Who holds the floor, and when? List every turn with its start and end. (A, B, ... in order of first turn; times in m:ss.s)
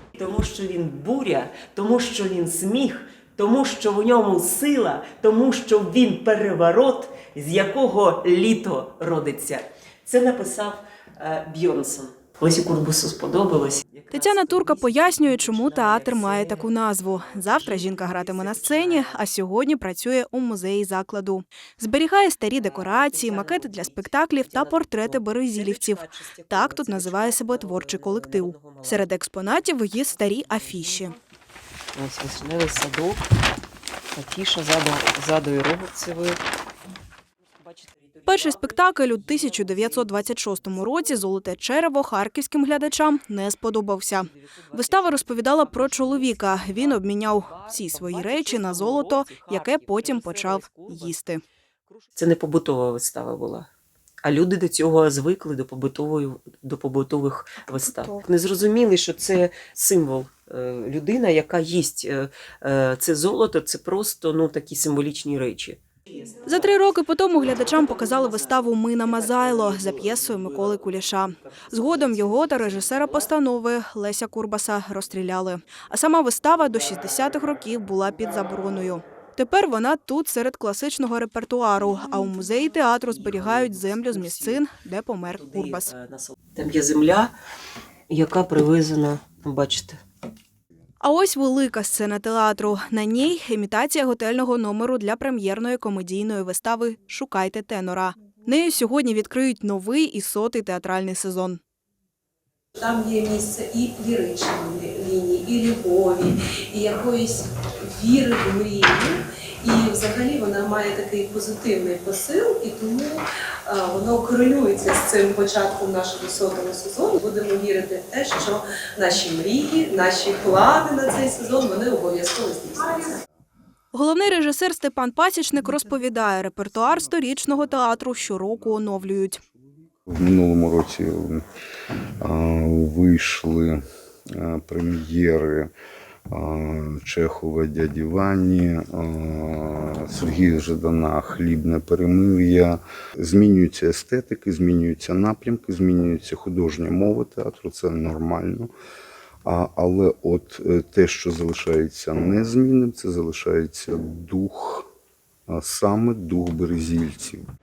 0:00.2-0:19.2 A
0:14.1-0:31.2 B
0:22.5-0:29.1 A
0:29.9-0:31.2 A
0:32.0-0:33.3 A
0:34.1-0:36.4 A
0:37.6-0:41.3 A
0:38.3-0:51.4 B
0:44.2-0:51.2 A
0:51.9-0:53.7 A
0:54.2-1:05.8 A
1:06.4-1:25.9 B
1:07.4-1:13.3 A
1:22.6-1:24.7 A
1:25.3-1:27.3 A
1:28.1-1:30.0 A
1:31.0-1:41.6 B
1:42.8-2:03.2 C
2:03.9-2:09.4 B
2:10.1-2:11.4 D
2:12.2-2:15.7 D
2:16.3-2:28.7 D
2:29.4-2:34.9 D
2:35.5-2:37.4 D